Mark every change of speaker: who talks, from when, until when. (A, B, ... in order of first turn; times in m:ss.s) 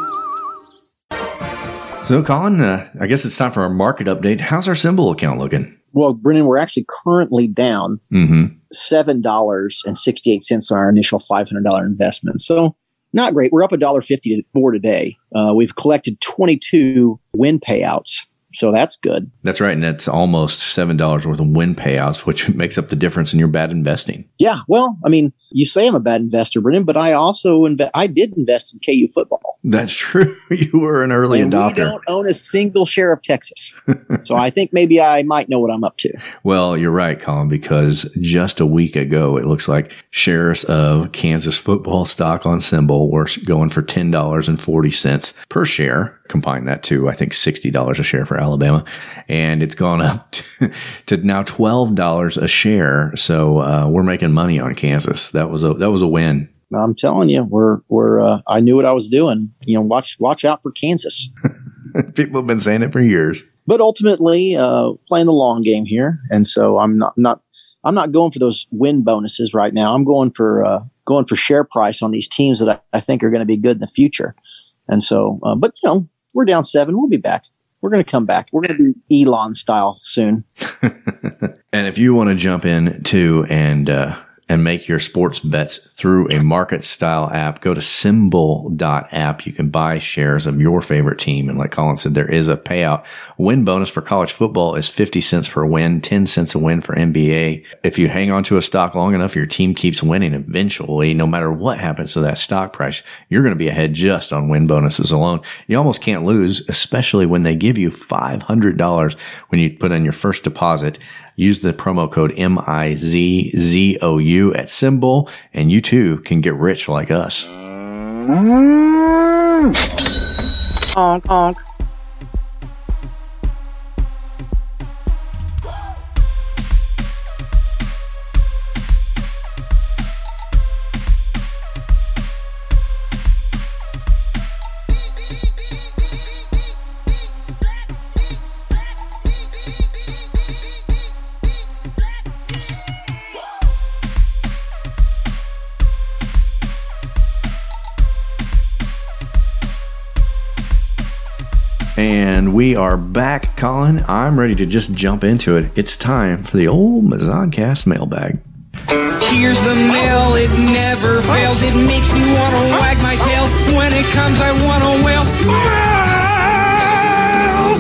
0:02.0-0:05.7 A
0:05.9-0:08.0 B
0:08.1-0:08.5 A
0:08.7-0:19.3 B
0:19.4-0:24.3 A
0:24.4-0:29.6 B
0:29.6-0:32.0 A
0:31.3-0:33.7 B
0:34.2-0:36.2 B
0:36.4-0:56.5 A
0:56.7-1:01.3 B
1:02.0-1:03.5 A
1:03.7-1:14.4 B
1:14.9-1:20.4 B
1:20.8-1:57.5 A
2:32.0-2:38.4 A
2:39.2-2:45.5 C